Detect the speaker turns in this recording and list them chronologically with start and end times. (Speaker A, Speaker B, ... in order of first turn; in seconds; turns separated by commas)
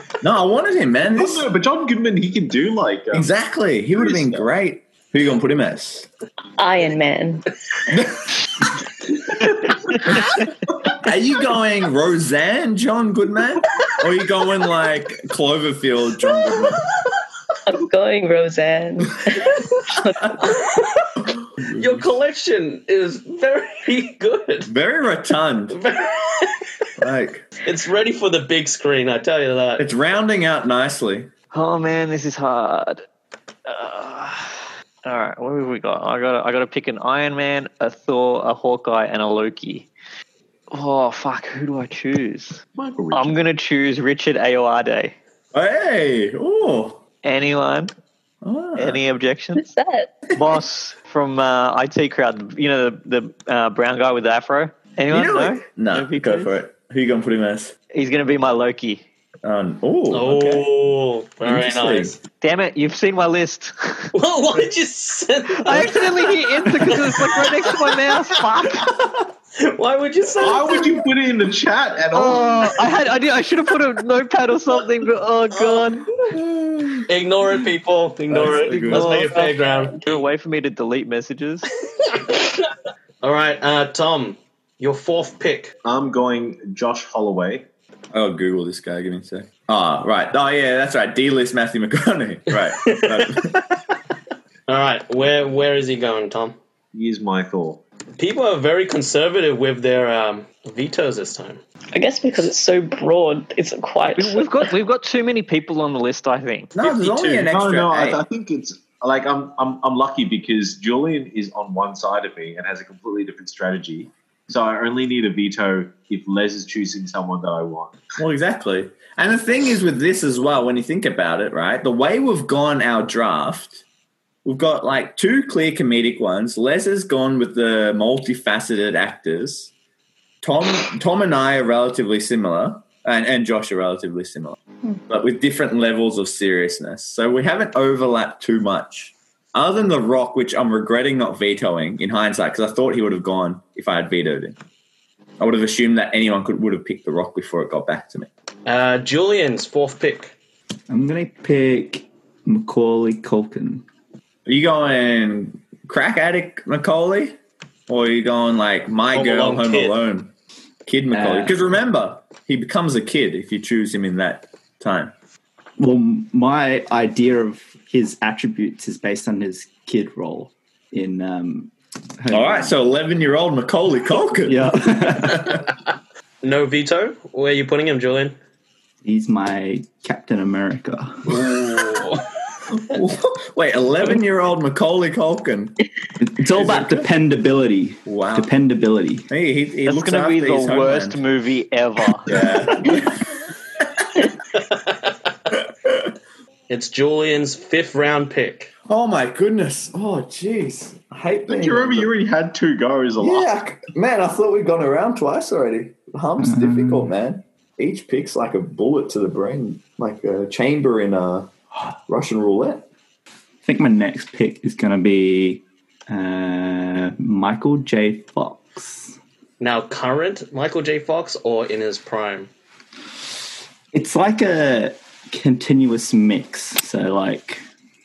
Speaker A: 0.2-1.5, Speaker B: 1.1-3.3, Speaker A: 3.1-6.1, Speaker B: 4.0-4.5, Speaker C: 6.6-7.5, Speaker A: 7.9-8.3, Speaker A: 11.0-16.9, Speaker C: 17.7-20.4, Speaker D: 20.5-20.8, Speaker A: 21.6-22.1, Speaker D: 21.7-24.7, Speaker A: 24.6-25.8, Speaker D: 25.7-26.6, Speaker A: 27.0-27.5, Speaker D: 27.6-29.9, Speaker A: 29.8-31.3, Speaker E: 31.5-33.0, Speaker E: 33.7-39.9, Speaker E: 40.7-42.6, Speaker B: 42.7-43.3, Speaker E: 43.1-45.1, Speaker A: 45.5-47.0, Speaker E: 47.2-47.9, Speaker A: 48.4-49.0, Speaker E: 48.8-49.6, Speaker C: 49.5-50.2, Speaker E: 50.4-56.6, Speaker A: 55.1-57.8, Speaker E: 57.9-59.0, Speaker A: 59.4-60.6, Speaker D: 60.1-62.2, Speaker A: 61.4-62.1, Speaker E: 62.4-64.1, Speaker D: 64.1-68.8, Speaker E: 65.6-68.9, Speaker D: 69.6-71.0, Speaker B: 70.4-72.7, Speaker E: 72.1-76.1, Speaker D: 75.5-75.9, Speaker A: 76.3-77.0, Speaker D: 77.0-80.2, Speaker A: 78.3-79.1, Speaker E: 78.9-81.7, Speaker D: 82.0-82.7, Speaker D: 83.2-85.7, Speaker B: 85.8-87.7, Speaker A: 88.1-93.8, Speaker D: 92.5-93.4, Speaker D: 94.7-96.6, Speaker B: 96.9-97.8, Speaker D: 98.2-101.6, Speaker C: 101.9-104.7, Speaker E: 104.0-107.5, Speaker A: 106.7-108.2, Speaker B: 107.5-118.0, Speaker A: 118.2-123.8, Speaker A: 124.4-129.7, Speaker A: 130.4-144.6, Speaker A: 145.4-148.3, Speaker D: 148.7-150.3, Speaker F: 150.9-153.8, Speaker A: 154.4-157.3, Speaker A: 157.9-160.3, Speaker D: 159.1-159.9, Speaker A: 160.8-165.1, Speaker F: 161.1-161.6, Speaker F: 165.8-172.8, Speaker A: 172.3-175.4, Speaker F: 174.4-175.6, Speaker D: 176.4-178.4, Speaker F: 179.0-181.4, Speaker D: 181.4-182.2, Speaker A: 182.7-185.8, Speaker F: 186.2-189.3, Speaker A: 186.5-187.1, Speaker A: 188.1-188.5, Speaker A: 189.3-191.2, Speaker E: 189.8-192.3, Speaker A: 192.2-193.2, Speaker B: 192.3-192.9, Speaker A: 195.8-196.1, Speaker D: 196.7-198.7, Speaker A: 198.9-202.1, Speaker B: 201.5-203.5, Speaker A: 203.2-211.5, Speaker F: 206.4-207.1, Speaker A: 212.1-212.9, Speaker F: 213.6-219.2, Speaker D: 219.6-222.5, Speaker F: 223.9-227.6